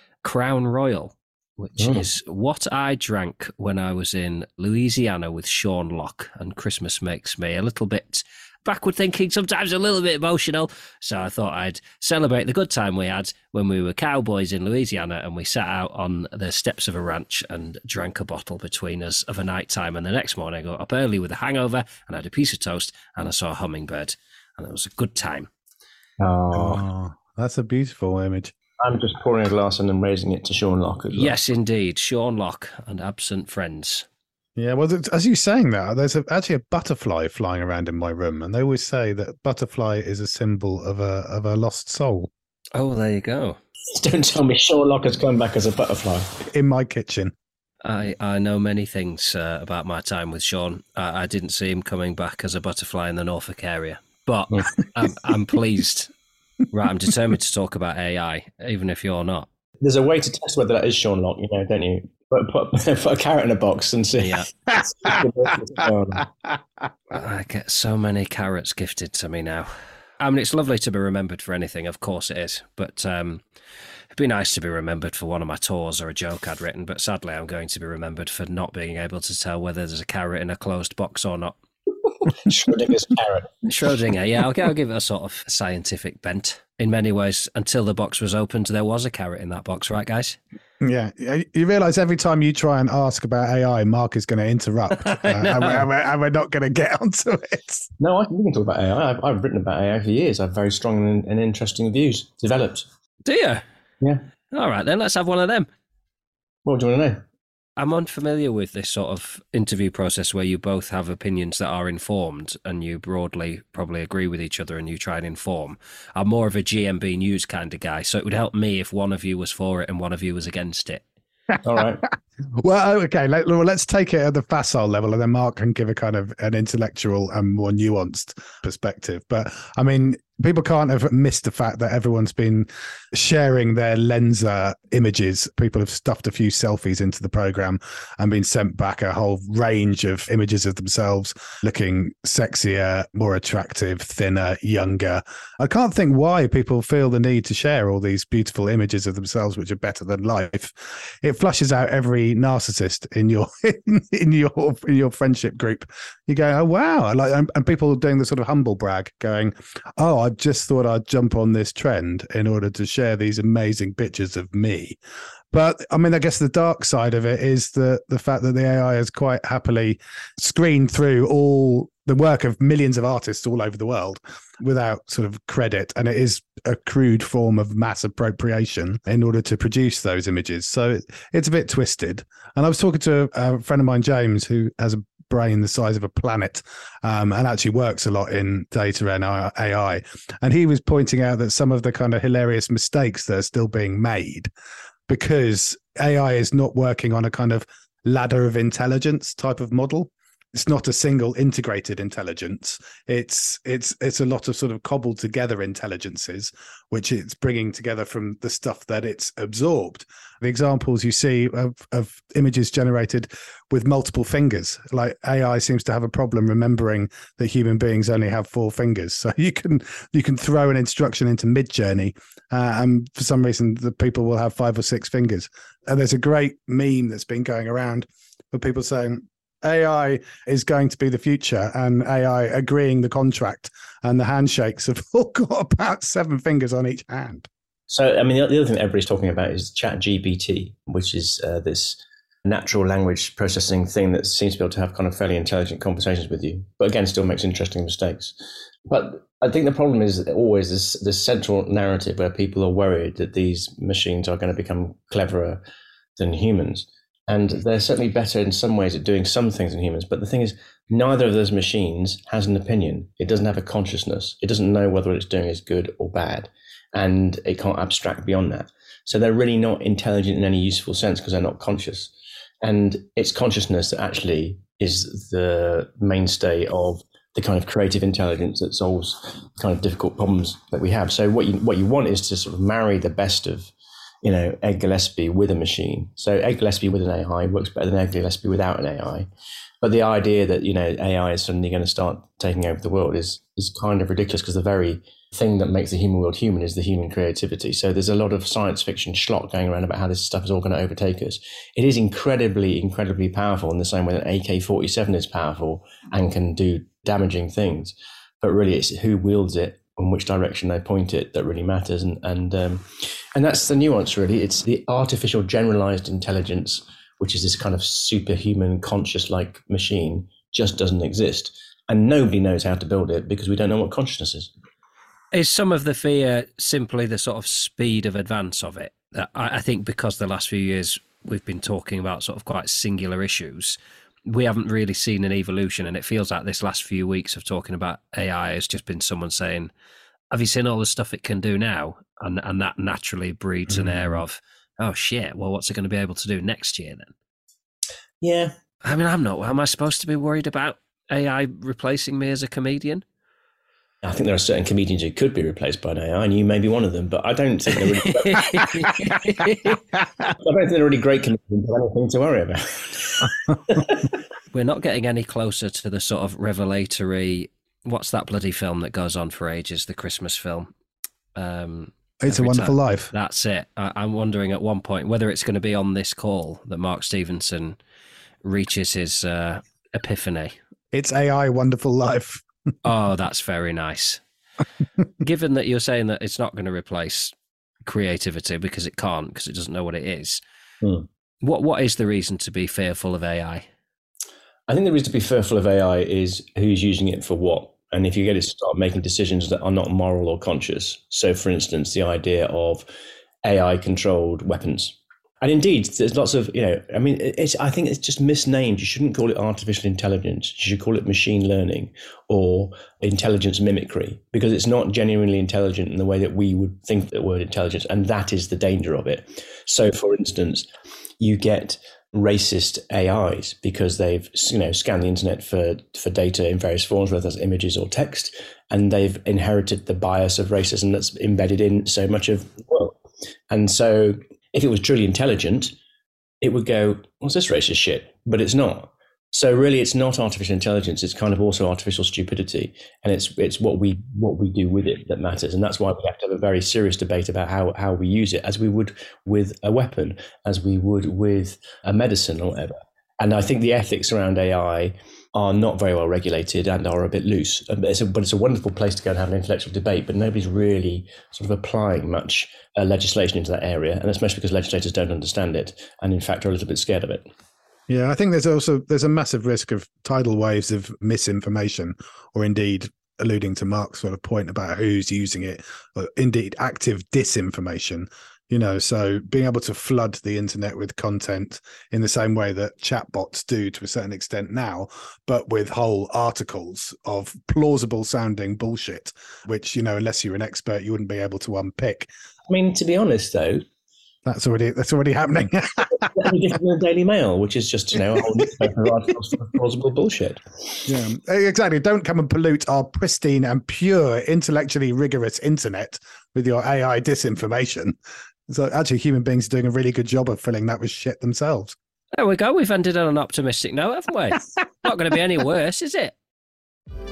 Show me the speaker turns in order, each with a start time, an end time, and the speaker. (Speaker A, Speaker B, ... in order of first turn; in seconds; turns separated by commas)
Speaker A: 0.2-25.5, Speaker B: 1.8-2.1, Speaker B: 26.2-26.8, Speaker C: 26.5-28.5, Speaker B: 28.8-31.4, Speaker A: 31.1-34.0, Speaker C: 34.6-42.3, Speaker A: 42.7-43.6, Speaker B: 43.9-46.3, Speaker C: 46.5-47.3, Speaker A: 47.8-56.1, Speaker A: 56.7-59.5, Speaker B: 59.8-66.3, Speaker A: 64.2-64.5, Speaker A: 67.1-73.4, Speaker A: 74.1-81.6, Speaker B: 82.4-83.7, Speaker A: 83.7-90.4, Speaker C: 90.8-97.9, Speaker A: 95.0-95.8, Speaker B: 98.0-102.9, Speaker A: 103.2-103.6, Speaker A: 104.5-105.7, Speaker B: 106.6-107.2, Speaker A: 107.8-121.0, Speaker B: 121.6-122.0, Speaker C: 122.5-165.0, Speaker C: 165.5-194.5, Speaker C: 195.1-237.5, Speaker B: 237.9-248.3, Speaker B: 248.9-255.6, Speaker B: 256.2-289.3, Speaker B: 289.8-324.5, Speaker A: 325.3-339.7, Speaker A: 340.3-347.1, Speaker C: 343.7-344.2, Speaker B: 348.2-348.5, Speaker A: 348.8-353.0, Speaker B: 354.0-358.9, Speaker A: 358.1-359.8, Speaker B: 360.4-364.1, Speaker A: 364.5-370.7, Speaker A: 371.4-377.8, Speaker C: 372.2-373.1, Speaker A: 378.4-380.6, Speaker C: 380.9-382.4, Speaker A: 382.8-384.2, Speaker A: 385.2-387.3, Speaker A: 387.8-390.4, Speaker A: 391.4-393.6, Speaker B: 394.7-402.9, Speaker B: 403.4-420.7, Speaker B: 421.2-433.0, Speaker B: 433.5-435.8, Speaker B: 436.4-467.3, Speaker C: 467.9-492.1, Speaker B: 492.5-493.6, Speaker C: 494.2-496.3, Speaker B: 496.0-500.8, Speaker C: 498.2-498.4, Speaker C: 500.9-507.9, Speaker C: 508.5-511.8, Speaker A: 512.1-516.1